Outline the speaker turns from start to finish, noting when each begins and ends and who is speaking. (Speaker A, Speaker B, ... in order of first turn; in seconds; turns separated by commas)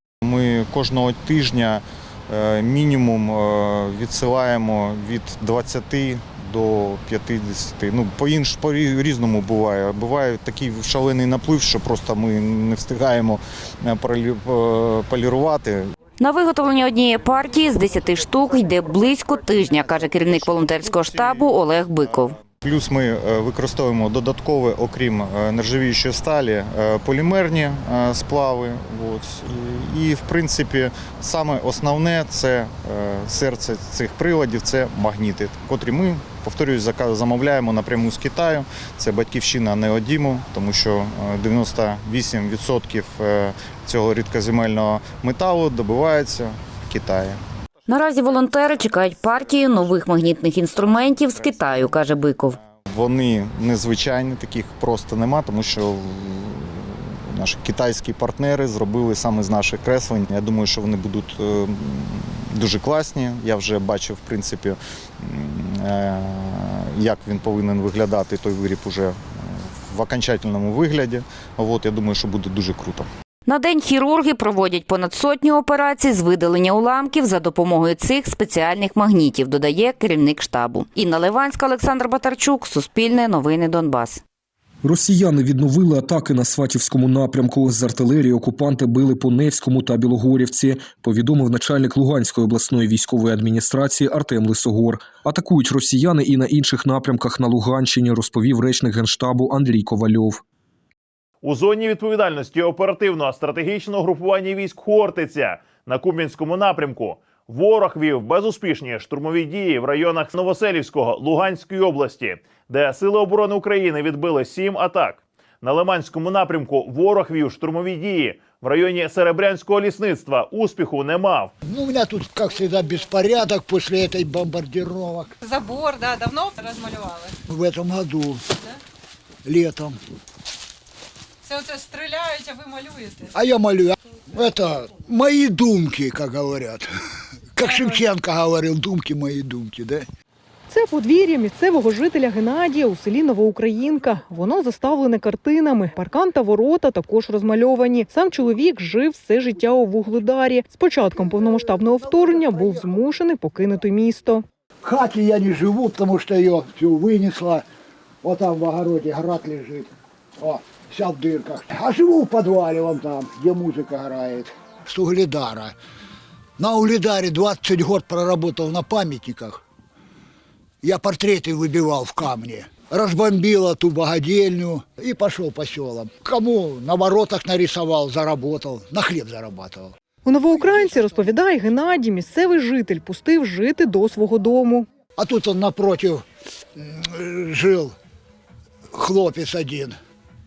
Speaker A: 0.2-15.9, Speaker B: 16.2-22.4, Speaker A: 18.8-47.4, Speaker B: 47.9-52.6, Speaker A: 49.0-73.1, Speaker B: 73.5-84.2, Speaker C: 84.8-100.4, Speaker D: 101.4-121.5, Speaker E: 121.6-125.3, Speaker F: 125.8-127.0, Speaker E: 127.5-128.4, Speaker E: 129.4-130.0, Speaker F: 131.5-132.9, Speaker E: 133.3-136.9, Speaker E: 137.5-140.0, Speaker G: 140.7-154.4, Speaker E: 151.2-152.8, Speaker E: 154.8-157.6, Speaker E: 158.2-159.9, Speaker E: 160.4-165.7, Speaker E: 166.6-169.6, Speaker E: 170.8-179.9, Speaker G: 180.3-184.8, Speaker E: 180.5-181.3, Speaker E: 185.2-186.2, Speaker E: 186.8-187.9, Speaker E: 188.9-189.9